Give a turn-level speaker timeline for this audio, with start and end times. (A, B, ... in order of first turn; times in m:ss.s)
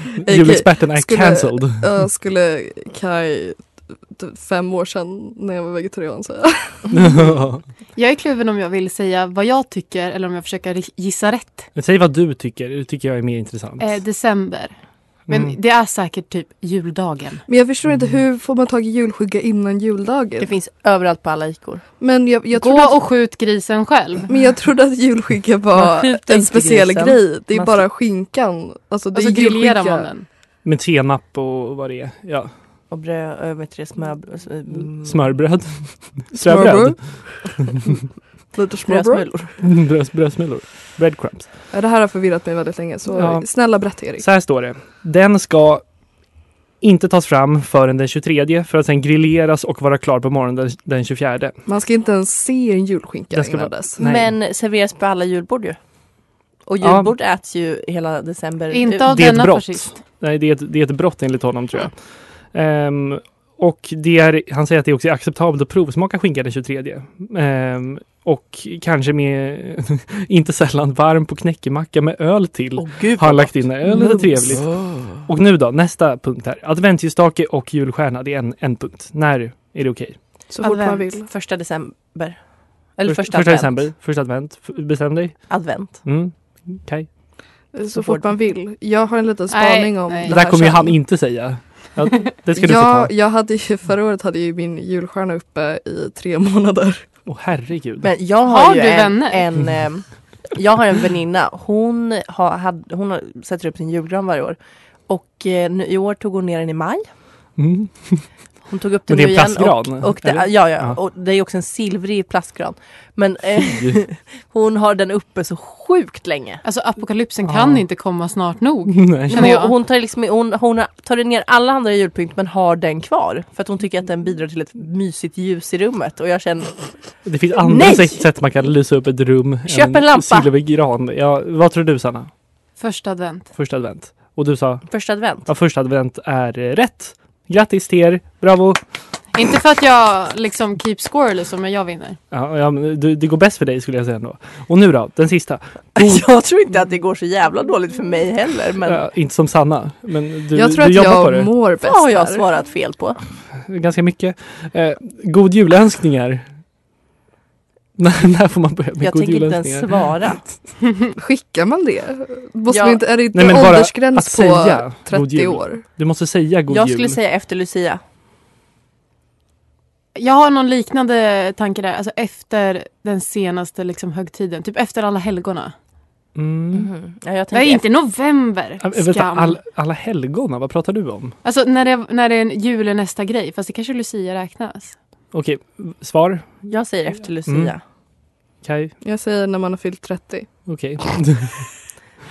0:00.2-0:06.9 A
0:00.3-0:02.0 B
0:06.9-0:07.7 B
0:07.9-0:11.7 C
0:11.7-0:14.0 B
0:13.8-0:17.4 C
0:15.3-0:15.5 B
0:17.5-0:20.5 A
0:20.4-0:21.9 D
0:22.0-0:23.0 A
0:22.5-0:24.3 C
0:24.3-0:30.1 A
0:25.7-0:27.3 D
0:29.1-0:30.3 C
0:30.6-0:32.5 B
0:32.9-0:35.5 D
0:35.0-0:37.6 B
0:36.3-0:37.8 A
0:38.5-0:39.3 A
0:38.8-0:39.6 D
0:39.6-0:41.5 B
0:41.7-0:44.2 A
0:43.2-0:46.0 B
0:46.8-0:51.6 B
0:51.6-0:54.0 A
0:53.3-0:54.3 B
0:54.0-0:59.1 D
0:56.8-0:57.1 B
0:58.7-1:00.0 C
0:59.1-1:20.4 B
1:12.8-1:14.4 D
1:20.5-1:21.3 A
1:20.6-1:21.1 C
1:21.1-1:23.9 D
1:23.0-1:27.2 B
1:25.5-1:26.0 D
1:27.7-1:31.1 A
1:27.9-1:28.3 D
1:29.5-1:30.4 C
1:30.2-1:33.1 B
1:32.5-1:37.2 A
1:37.2-1:38.1 B
1:38.0-1:47.1 D
1:38.4-1:39.4 C
1:47.6-1:51.0 B
1:48.6-1:56.6 D
1:53.6-1:54.0 B
1:56.6-1:59.7 C
1:57.4-1:57.8 B
1:58.9-1:59.5 B
1:59.3-2:08.6 D
2:07.2-2:12.3 B
2:09.7-2:10.5 D
2:12.8-2:13.5 C
2:13.5-2:18.8 B
2:14.9-2:15.5 D
2:19.3-2:22.2 C
2:22.3-2:26.3 B
2:26.0-2:29.1 D
2:28.8-2:31.5 B
2:30.5-2:32.4 A
2:31.8-2:33.2 D
2:33.6-2:36.6 B
2:38.0-2:40.5 B
2:39.0-2:40.6 D
2:41.1-2:45.8 A
2:42.7-2:43.0 D
2:43.3-2:47.2 B
2:46.7-2:48.0 D
2:50.1-2:55.7 C
2:56.3-2:56.9 B
2:56.7-2:57.8 D
2:57.5-2:59.6 C
2:58.8-3:01.4 B
3:01.4-3:05.0 C
3:05.3-3:08.9 B
3:06.7-3:07.8 D
3:09.0-3:10.7 A
3:10.7-3:11.8 B